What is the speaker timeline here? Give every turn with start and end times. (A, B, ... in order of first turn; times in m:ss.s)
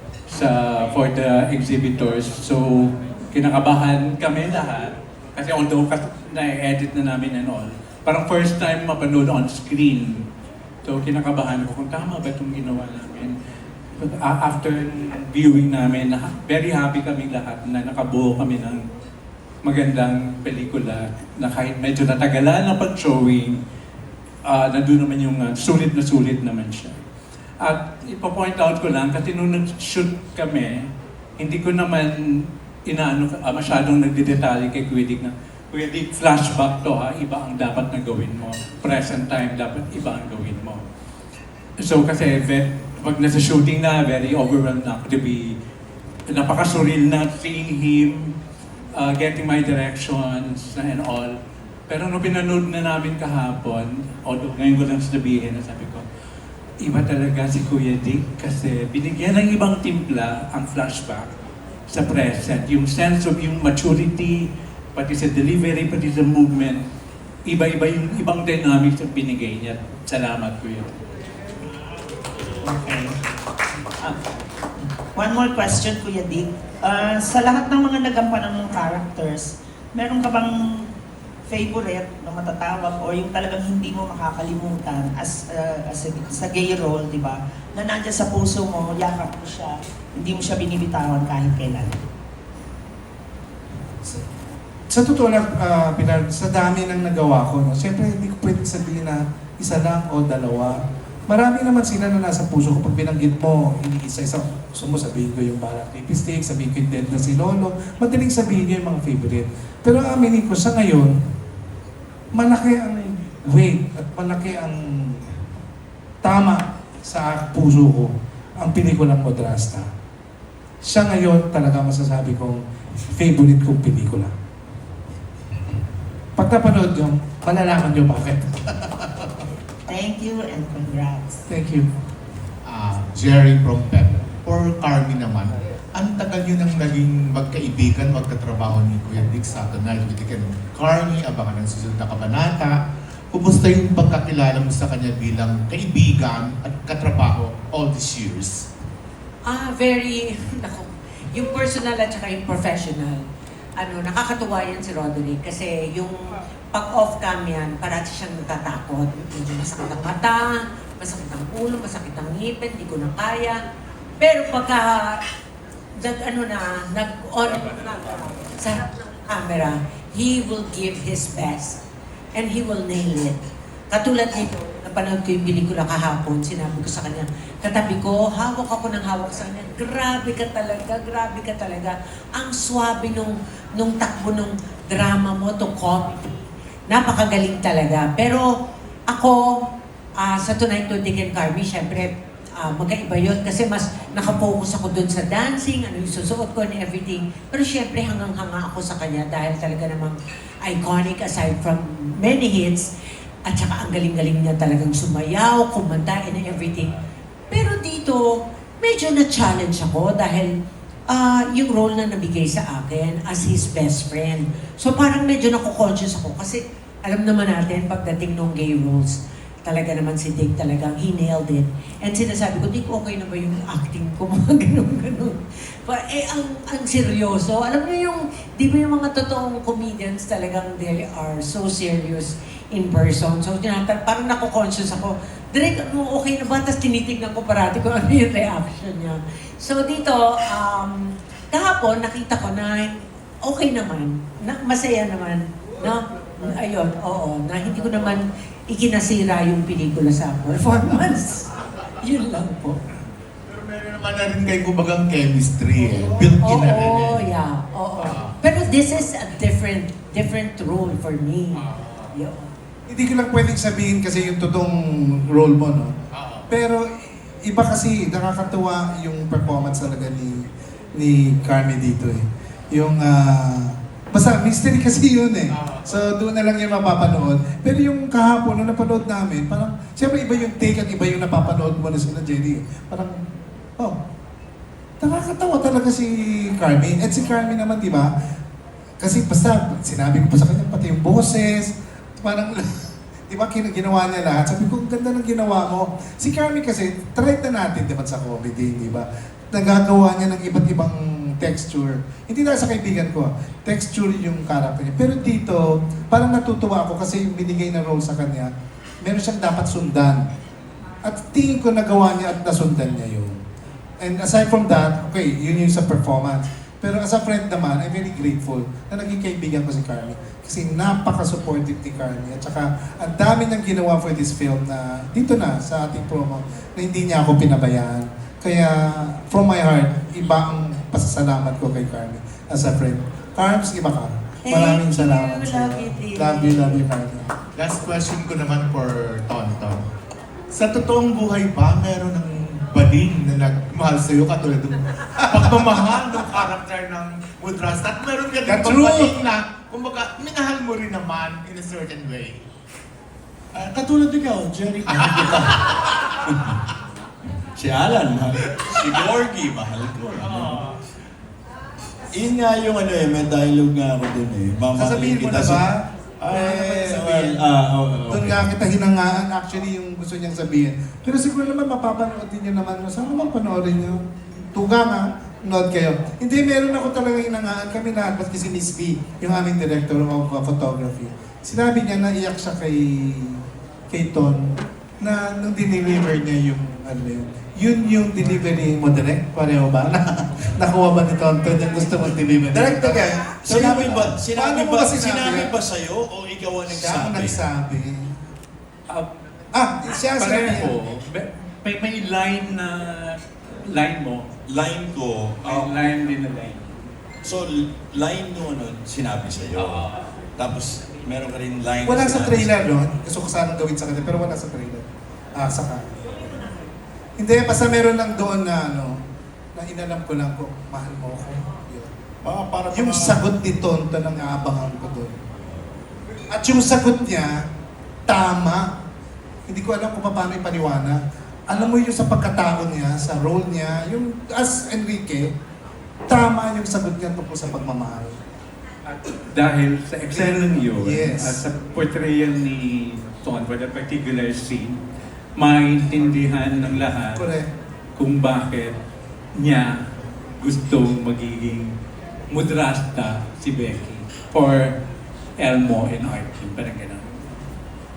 0:00.3-0:10.2 A
0:10.8-0:13.3 A
0:14.0-0:18.8 A
0:19.6-0:23.6 A
0:24.5-0:27.0 A
0:27.6-0:40.8 A
0:41.8-0:45.6 A
0:46.3-0:48.3 A
0:48.9-0:51.4 A
0:51.9-0:56.1 A
0:56.8-1:01.3 A
1:01.9-1:06.8 A
1:07.5-1:11.0 A
1:12.6-1:13.1 B
1:15.2-1:20.9 B
1:21.5-1:32.0 B
1:34.9-1:51.2 C
1:52.3-1:55.3 C
1:56.2-1:59.9 C
2:00.8-2:04.3 C
2:06.4-2:09.3 C
2:09.9-2:11.4 B
2:11.5-2:11.9 C
2:12.6-2:22.8 D
2:23.3-2:28.7 D
2:29.5-2:33.3 E
2:33.8-2:43.6 E
2:44.2-2:45.2 E
2:46.0-2:51.8 E
2:52.3-2:53.4 E
2:53.9-3:08.5 E
3:09.1-3:09.4 E
3:10.2-3:22.9 E
3:23.5-3:27.0 E
3:27.5-3:28.2 E
3:28.8-3:30.5 E
3:31.1-4:11.5 E
4:12.0-4:12.8 E
4:13.5-4:17.4 D
4:16.0-4:22.5 E
4:18.1-4:18.4 D
4:21.7-4:22.2 D
4:22.9-4:25.9 C
4:26.1-4:26.5 D
4:26.5-4:43.2 C
4:35.5-4:35.9 D
4:45.0-4:48.1 C
4:49.0-5:08.5 C
5:09.0-5:10.2 C
5:11.0-5:13.4 C
5:14.0-5:37.4 C
5:34.5-5:36.8 E
5:37.6-5:39.8 D
5:40.5-5:52.4 D
5:45.4-5:46.2 C
5:48.5-5:49.2 C
5:53.5-5:55.6 F
5:56.3-5:56.6 F
5:57.6-6:00.6 F
6:00.2-6:00.8 D
6:02.1-6:05.7 F
6:04.7-6:07.4 C
6:06.2-6:08.4 F
6:08.1-6:35.6 C
6:32.5-6:37.4 F
6:36.7-6:38.2 C
6:39.5-6:40.7 C
6:40.0-6:44.3 A
6:44.5-6:45.7 F
6:45.4-6:46.7 A
6:47.2-6:52.6 F
6:49.6-6:50.0 A
6:51.8-6:56.5 C
6:57.2-6:59.0 C
6:59.6-7:01.9 C
7:02.2-7:03.2 F
7:02.7-7:05.2 C
7:06.3-7:07.4 C
7:08.1-7:08.7 C
7:09.5-7:15.3 C
7:16.1-7:18.2 C
7:18.8-7:24.8 A
7:20.1-7:21.4 C
7:25.4-7:27.3 A
7:27.0-7:27.5 C
7:28.0-7:28.8 A
7:29.4-7:29.8 A
7:30.4-7:31.7 A
7:32.3-7:34.7 A
7:35.4-7:37.1 A